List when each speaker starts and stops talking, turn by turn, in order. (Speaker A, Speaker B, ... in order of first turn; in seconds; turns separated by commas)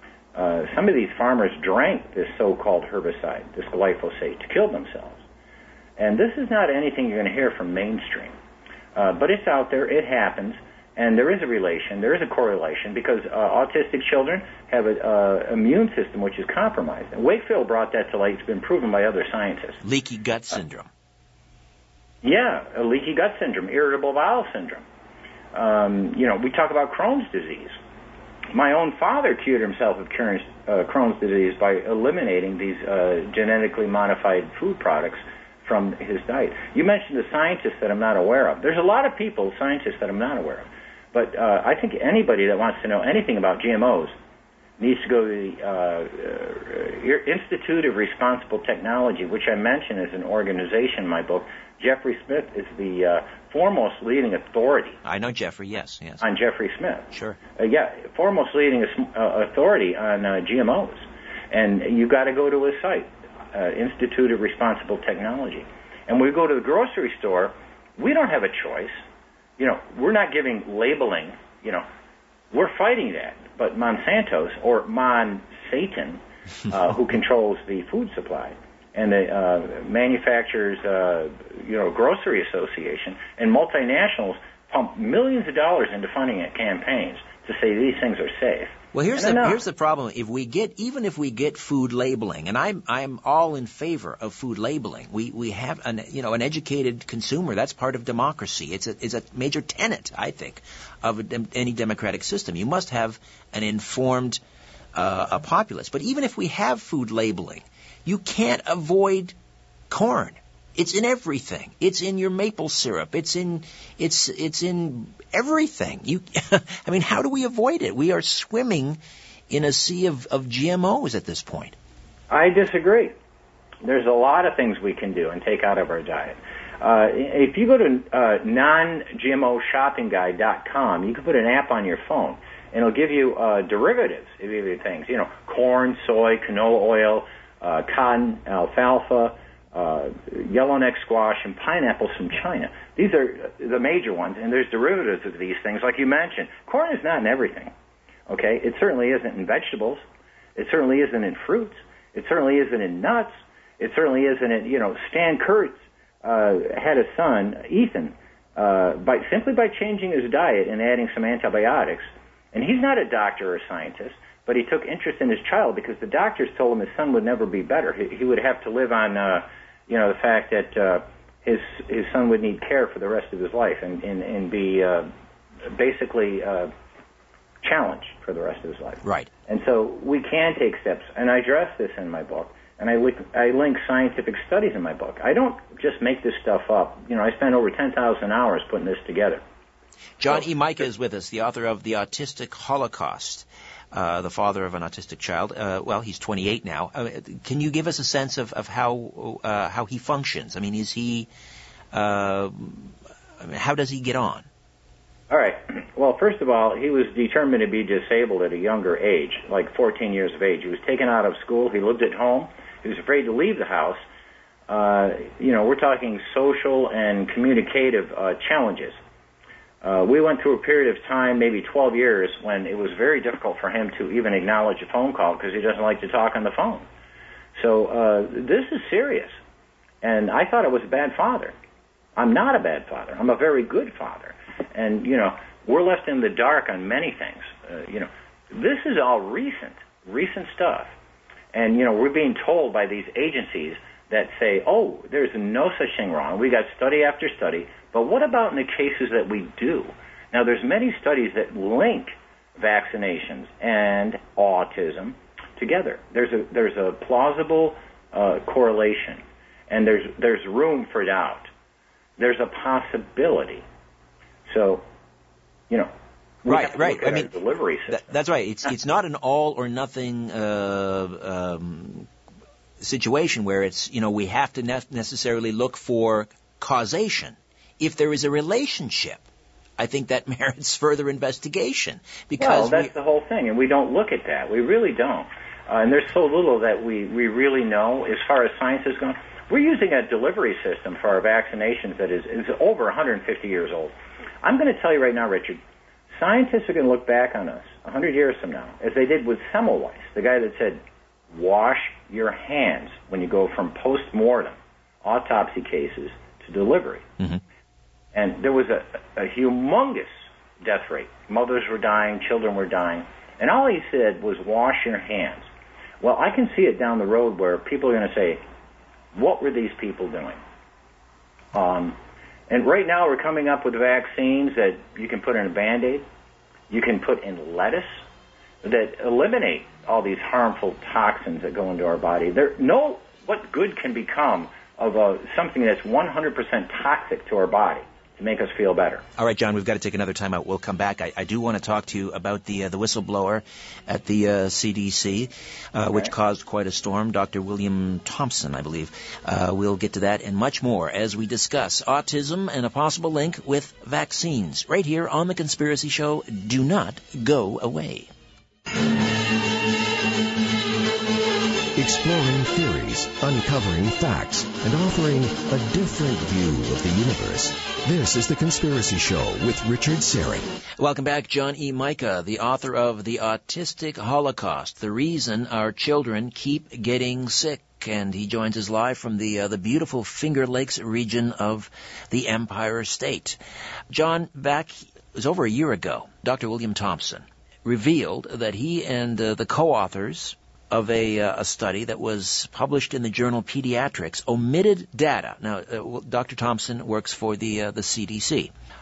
Speaker A: 0.3-5.2, Speaker A: 6.0-8.3, Speaker A: 8.9-19.8, Speaker B: 19.8-20.9, Speaker A: 22.2-24.8, Speaker A: 25.5-27.8, Speaker A: 28.5-44.1, Speaker A: 44.8-55.0, Speaker B: 55.0-56.2, Speaker A: 56.2-69.0, Speaker B: 57.1-57.4, Speaker A: 69.6-71.8, Speaker A: 72.5-89.6, Speaker B: 88.9-104.4, Speaker B: 104.9-109.3, Speaker B: 109.9-119.0, Speaker B: 119.5-121.8, Speaker A: 122.3-123.2, Speaker A: 123.8-147.7, Speaker A: 148.3-150.0, Speaker A: 150.6-175.1, Speaker A: 175.7-176.7, Speaker A: 177.6-189.4, Speaker B: 179.0-179.3, Speaker B: 190.2-201.3, Speaker B: 201.9-204.5, Speaker A: 205.3-214.0, Speaker A: 214.7-219.0, Speaker A: 219.8-226.8, Speaker A: 227.6-229.4, Speaker A: 230.0-231.6, Speaker A: 232.2-240.9, Speaker A: 241.5-261.5, Speaker A: 262.2-263.6, Speaker A: 264.5-264.9, Speaker A: 266.4-268.1, Speaker B: 266.5-267.3, Speaker B: 267.9-272.1, Speaker B: 272.8-279.2, Speaker B: 279.8-282.9, Speaker A: 282.4-295.6, Speaker A: 296.1-300.8, Speaker A: 301.3-307.1, Speaker A: 308.1-315.5, Speaker A: 316.0-318.4, Speaker A: 319.1-320.4, Speaker A: 321.5-322.0, Speaker A: 322.5-326.1, Speaker A: 326.7-328.0, Speaker A: 328.6-339.0, Speaker B: 339.2-358.1, Speaker C: 361.8-370.5, Speaker B: 370.8-383.4, Speaker B: 383.9-398.5